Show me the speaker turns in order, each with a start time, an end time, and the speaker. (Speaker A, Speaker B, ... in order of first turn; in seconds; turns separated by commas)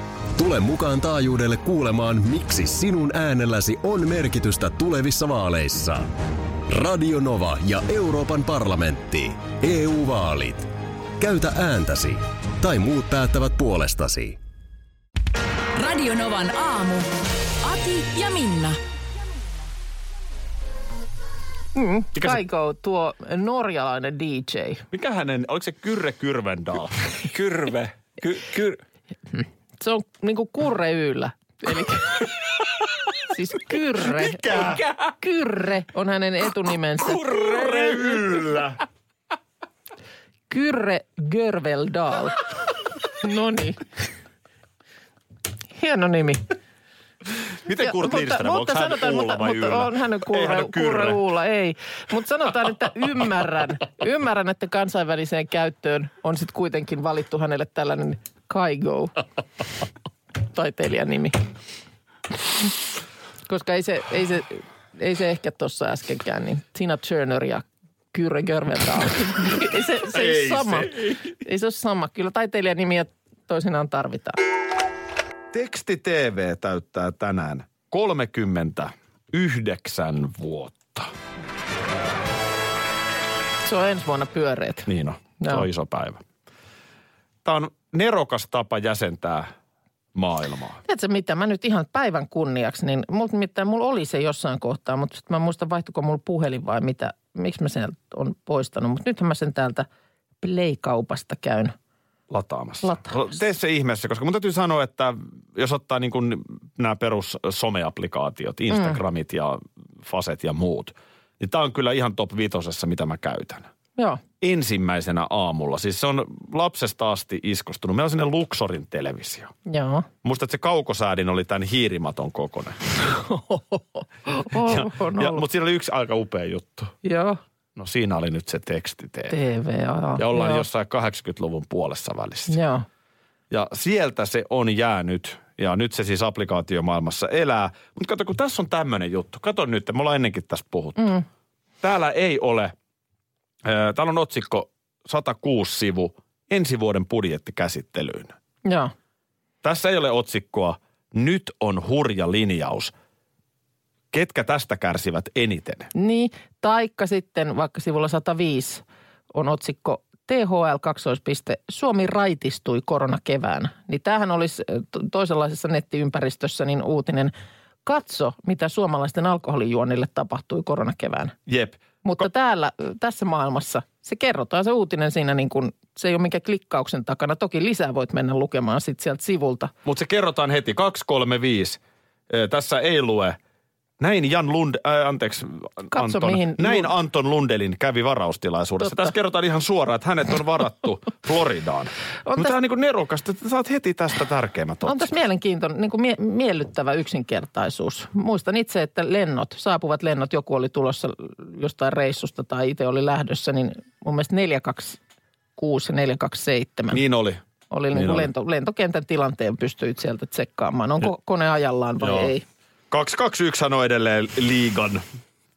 Speaker A: 0.3-6.1, Speaker A: 6.7-14.4, Speaker B: 15.7-17.1, Speaker B: 17.6-18.8, Speaker C: 21.7-24.8, Speaker D: 24.9-27.0, Speaker E: 27.3-28.8, Speaker C: 29.3-32.2, Speaker C: 33.3-34.6, Speaker D: 34.0-34.8, Speaker C: 35.2-37.4, Speaker D: 37.2-38.8, Speaker E: 37.3-38.2, Speaker C: 40.5-42.4, Speaker C: 43.1-43.8, Speaker C: 45.7-46.5, Speaker D: 47.6-51.2, Speaker C: 47.8-59.2, Speaker C: 60.5-61.4, Speaker C: 63.5-74.4, Speaker D: 70.1-71.2, Speaker D: 75.5-81.1, Speaker C: 83.6-84.9, Speaker D: 84.8-86.2, Speaker D: 87.4-89.5, Speaker D: 90.1-90.8, Speaker C: 90.8-99.8, Speaker C: 100.4-101.7, Speaker D: 102.3-113.7, Speaker C: 102.8-103.2, Speaker C: 108.7-109.0, Speaker D: 114.4-119.5, Speaker C: 119.7-120.1, Speaker D: 120.2-122.8, Speaker C: 123.0-125.4, Speaker D: 124.5-126.9, Speaker C: 127.0-127.4, Speaker D: 127.8-129.4, Speaker C: 129.3-130.6, Speaker D: 130.2-132.6, Speaker C: 132.5-132.8, Speaker D: 133.5-141.1, Speaker C: 141.0-141.2, Speaker D: 141.8-142.7, Speaker D: 143.6-148.3, Speaker C: 148.6-148.9, Speaker D: 149.6-152.9, Speaker D: 154.1-155.9, Speaker C: 155.9-167.3, Speaker C: 167.8-171.3, Speaker D: 171.5-172.2, Speaker C: 172.0-179.7, Speaker D: 179.8-183.4, Speaker D: 184.0-195.1, Speaker C: 185.9-186.9, Speaker C: 188.8-189.1, Speaker C: 192.3-192.5, Speaker C: 194.8-205.0, Speaker C: 205.6-207.0, Speaker D: 206.9-207.4, Speaker C: 207.7-212.4, Speaker D: 207.9-208.3, Speaker D: 212.0-212.3, Speaker D: 212.9-215.0